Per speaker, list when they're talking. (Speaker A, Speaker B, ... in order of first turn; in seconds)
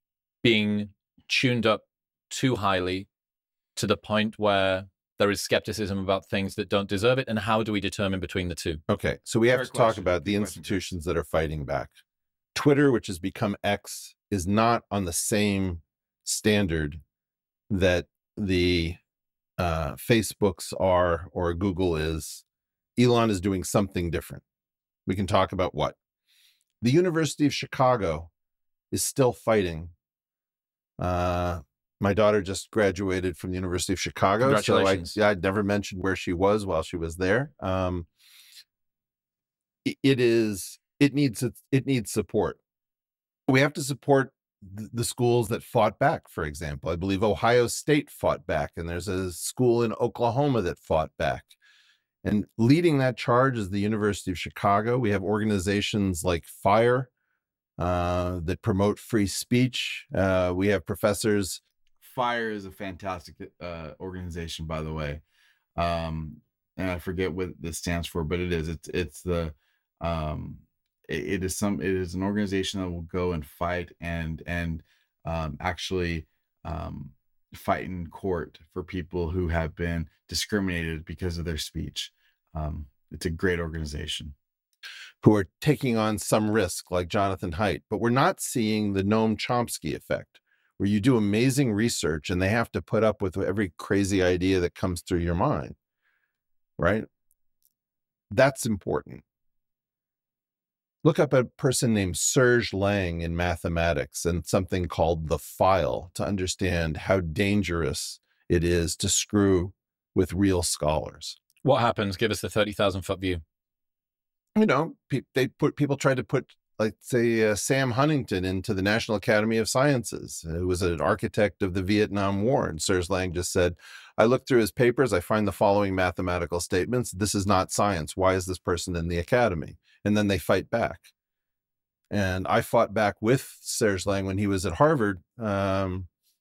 Speaker A: 0.4-3.1, 3.8-8.8, 34.4-35.1, 111.6-113.4
Speaker B: 8.9-11.9, 12.5-17.0, 17.7-19.0, 19.6-22.4, 22.9-24.4, 25.1-26.0, 26.8-28.3, 28.9-29.9, 31.0-38.1, 39.8-42.6, 43.5-51.5, 52.2-57.1, 57.8-61.6, 85.2-95.8, 96.8-97.1, 98.3-99.2, 101.0-111.4, 114.5-131.1, 132.1-136.1
Speaker C: 9.5-10.9, 62.0-65.2, 65.8-84.3